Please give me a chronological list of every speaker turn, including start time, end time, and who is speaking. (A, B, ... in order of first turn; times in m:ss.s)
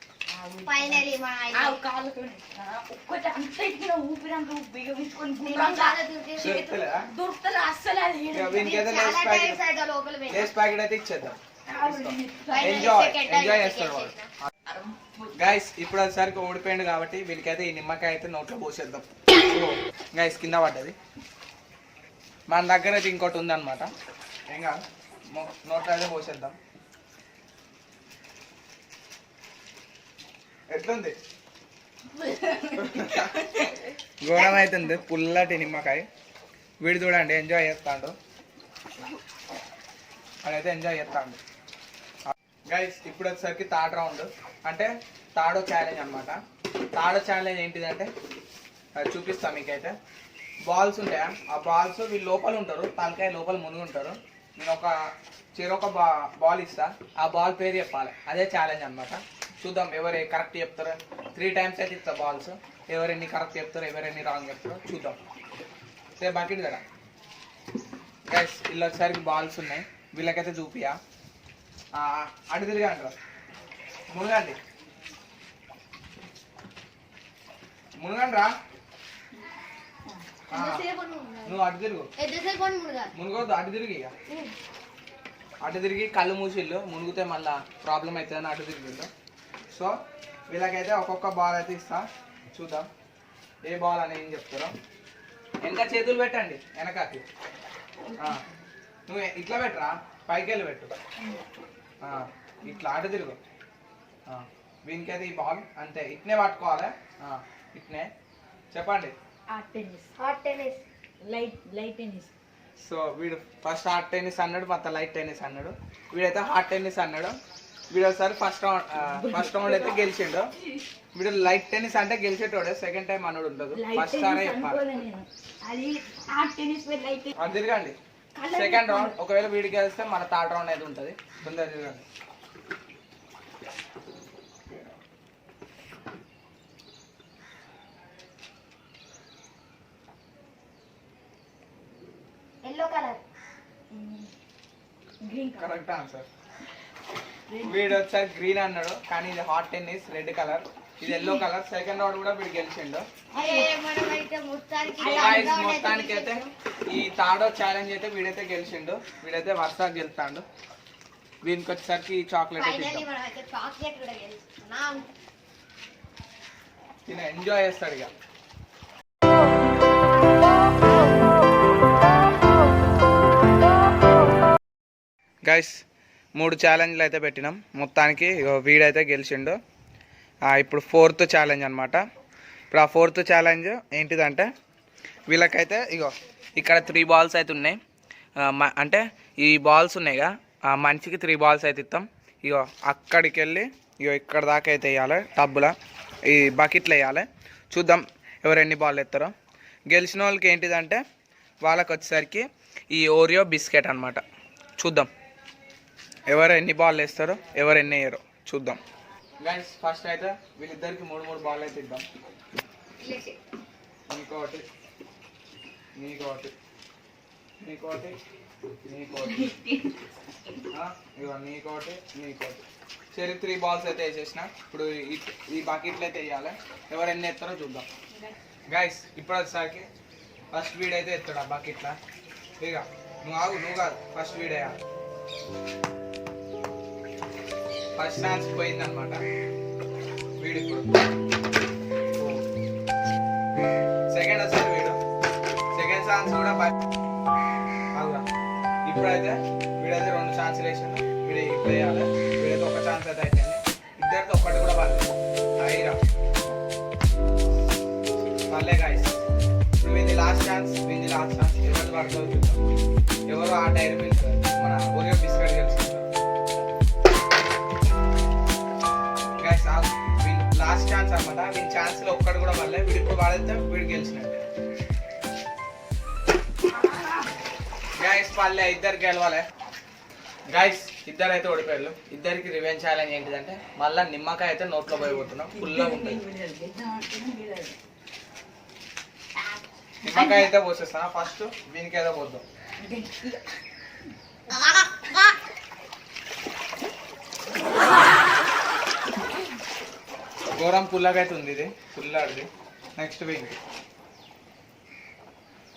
0:00.3-0:06.0 A
0:00.6-0:01.8 B
0:05.4-0:06.7 B
0:06.4-0:07.1 C
0:07.0-0:08.7 A
0:08.3-0:09.6 C
0:08.6-0:10.5 B
0:10.3-0:14.1 C
0:11.7-0:12.7 A
0:12.5-0:14.3 B
0:14.7-0:15.3 A
0:15.3-0:21.0 C
0:22.5-0:23.9 C
0:24.5-0:26.6 C
0:30.7-0:31.2 C
0:32.1-0:33.8 A
0:32.8-0:33.3 C
0:34.2-0:36.0 C
0:36.8-0:38.2 C
0:40.4-0:41.4 C
0:42.7-0:46.4 C
0:46.9-0:48.1 C
0:49.0-0:50.0 C
0:50.7-0:54.9 C
0:55.6-1:05.2 C
1:06.2-1:06.8 C
1:08.3-1:11.0 C
1:11.9-1:13.1 C
1:14.1-1:14.6 C
1:18.0-1:18.5 C
1:20.5-1:20.8 C
1:20.5-1:21.3 B
1:21.4-1:22.1 C
1:22.2-1:23.1 B
1:23.1-1:24.1 C
1:25.6-1:29.1 C
1:29.7-1:30.0 C
1:30.5-1:32.9 C
1:33.6-1:34.7 C
1:35.6-1:37.2 C
1:38.2-1:38.4 C
1:39.1-1:40.9 C
1:42.0-1:43.4 C
1:44.3-1:48.1 C
1:48.7-1:49.1 C
1:49.5-1:50.1 A
1:50.2-1:50.8 B
1:51.2-1:52.3 A
1:52.8-1:57.4 C
1:57.9-2:00.5 C
1:59.1-2:00.0 A
2:01.1-2:04.8 C
2:03.7-2:07.3 A
2:07.4-2:12.0 C
2:08.4-2:09.2 A
2:22.6-2:23.2 B
2:23.9-2:24.3 A
2:25.2-2:25.7 A
2:25.6-2:26.3 C
2:27.5-2:27.9 A
2:27.6-2:33.0 C
2:31.1-2:31.4 A
2:33.3-2:36.5 B
2:35.0-2:35.5 A
2:35.0-2:40.4 C
2:41.4-2:43.0 C
2:42.6-2:45.1 B
2:47.0-2:48.1 C
2:55.4-2:55.8 C
2:56.4-2:59.6 C
3:00.5-3:02.0 C
3:02.7-3:04.5 C
3:05.3-3:07.8 C
3:08.4-3:15.7 C
3:16.2-3:19.3 C
3:19.9-3:21.0 C
3:21.6-3:24.2 C
3:24.8-3:25.1 C
3:26.3-3:28.8 C
3:29.4-3:32.0 C
3:33.0-3:33.4 B
3:34.1-3:34.6 C
3:36.0-3:36.5 C
3:37.6-3:38.2 C
3:38.8-3:39.5 C
3:39.2-3:40.0 A
3:40.7-3:47.9 C
3:48.7-3:49.9 C
3:50.5-3:52.0 C
3:52.6-3:54.8 C
3:58.0-3:59.2 C
4:00.4-4:01.0 C
4:02.2-4:02.4 C
4:04.1-4:05.0 C
4:05.7-4:06.8 C
4:07.9-4:08.2 C
4:08.8-4:16.0 C
4:18.5-4:19.2 C
4:19.8-4:22.6 C
4:23.3-4:26.1 C
4:29.4-4:34.4 C
4:36.8-4:37.3 A
4:38.0-4:39.4 C
4:40.5-4:46.2 C
4:45.1-4:47.8 A
4:50.0-4:52.4 C
4:50.1-4:50.5 A
4:52.8-4:53.5 A
5:00.5-5:03.6 C